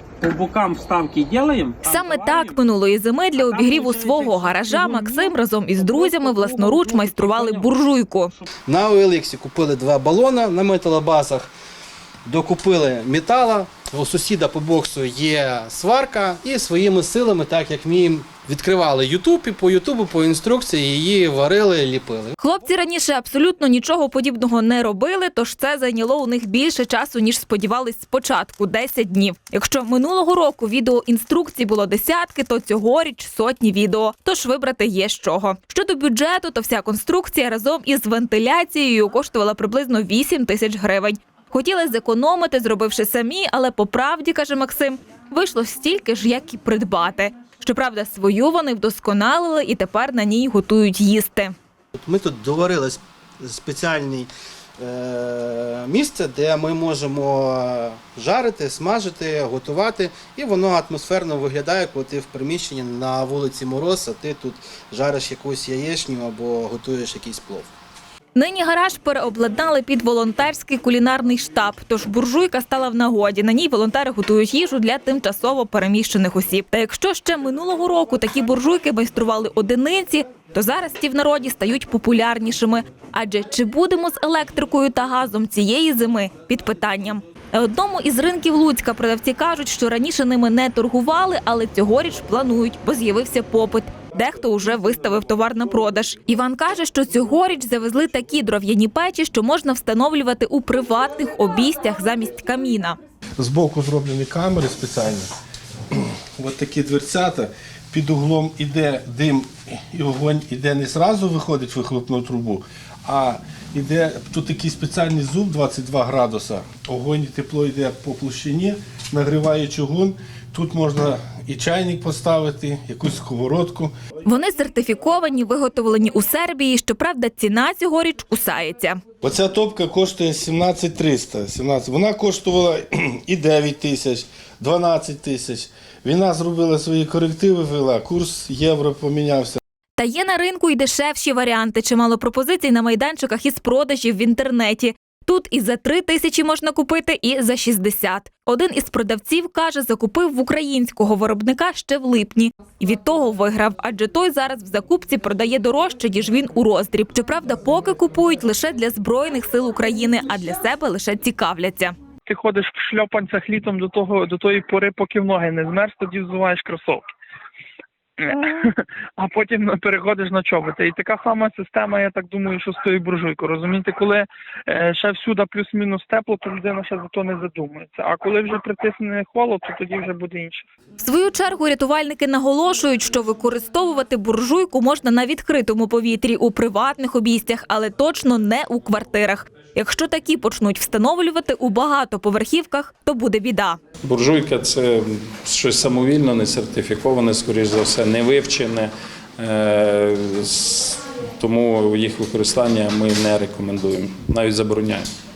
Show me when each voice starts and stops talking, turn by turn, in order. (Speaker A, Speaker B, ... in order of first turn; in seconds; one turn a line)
Speaker A: 0.2-2.6
Speaker B: 1.8-8.3
Speaker A: 3.4-8.4
Speaker C: 8.7-11.5
Speaker C: 12.2-22.4
Speaker B: 22.4-51.5
Speaker C: 52.0-67.7
Speaker B: 68.3-103.0
Speaker D: 103.4-105.3
Speaker D: 105.9-123.9
Speaker B: 124.3-129.0
Speaker D: 129.2-139.6
Speaker B: 140.0-161.9
Speaker E: 162.3-167.0
Speaker E: 168.2-180.7
Speaker B: 181.0-193.8
Speaker F: 194.0-205.1